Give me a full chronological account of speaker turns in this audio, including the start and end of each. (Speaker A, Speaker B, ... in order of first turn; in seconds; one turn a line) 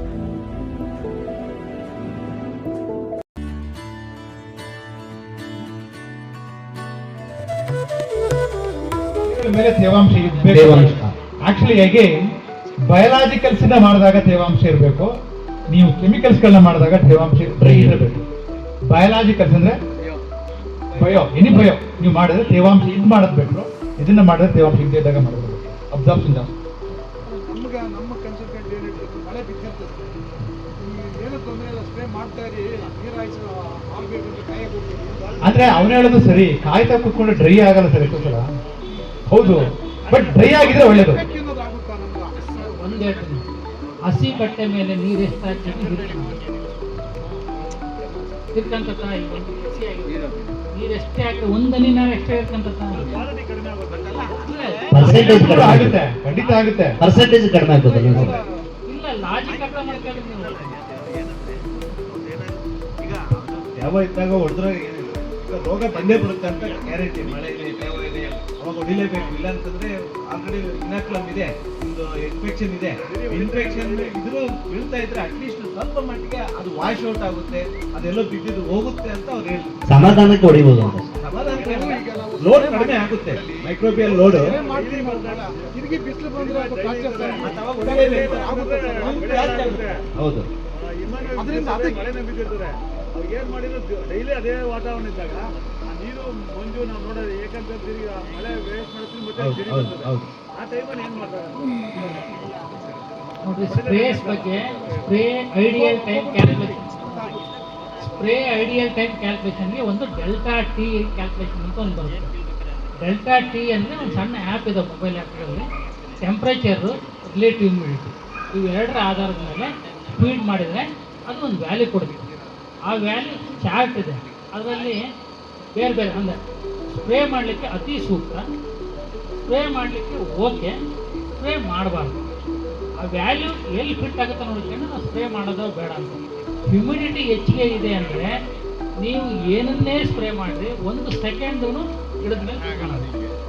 Speaker A: 9.2-12.2
Speaker B: 10.4-11.1
Speaker A: 12.9-15.1
Speaker A: 15.7-18.2
Speaker B: 17.6-18.1
Speaker A: 18.9-19.8
Speaker A: 21.0-26.5
Speaker C: 27.2-30.1
Speaker C: 30.8-35.4
Speaker A: 35.4-38.4
Speaker A: 39.3-41.3
Speaker C: 40.6-42.4
Speaker D: 42.5-43.4
Speaker D: 44.1-46.4
Speaker D: 48.5-50.2
Speaker D: 50.7-53.2
Speaker E: 53.0-54.4
Speaker F: 54.0-55.1
Speaker D: 54.5-54.8
Speaker B: 54.9-56.0
Speaker A: 55.0-57.0
Speaker D: 55.3-55.6
Speaker B: 57.0-58.4
Speaker C: 57.7-58.7
Speaker D: 58.9-60.6
Speaker F: 59.5-80.4
Speaker E: 73.1-74.2
Speaker B: 79.9-81.1
Speaker F: 81.2-84.6
Speaker C: 81.5-89.8
Speaker E: 84.6-85.5
Speaker E: 86.4-90.0
Speaker F: 87.4-90.0
Speaker B: 90.2-90.4
Speaker E: 90.8-102.0
Speaker C: 91.4-92.0
Speaker F: 99.4-100.2
Speaker D: 103.4-106.9
Speaker E: 103.7-105.0
Speaker C: 105.7-107.5
Speaker D: 108.0-112.3
Speaker D: 113.0-115.6
Speaker D: 116.2-122.2
Speaker D: 122.9-125.0
Speaker D: 125.8-126.4
Speaker D: 126.9-128.4
Speaker D: 129.5-130.7
Speaker D: 131.4-132.2
Speaker D: 133.0-138.3
Speaker D: 139.0-143.1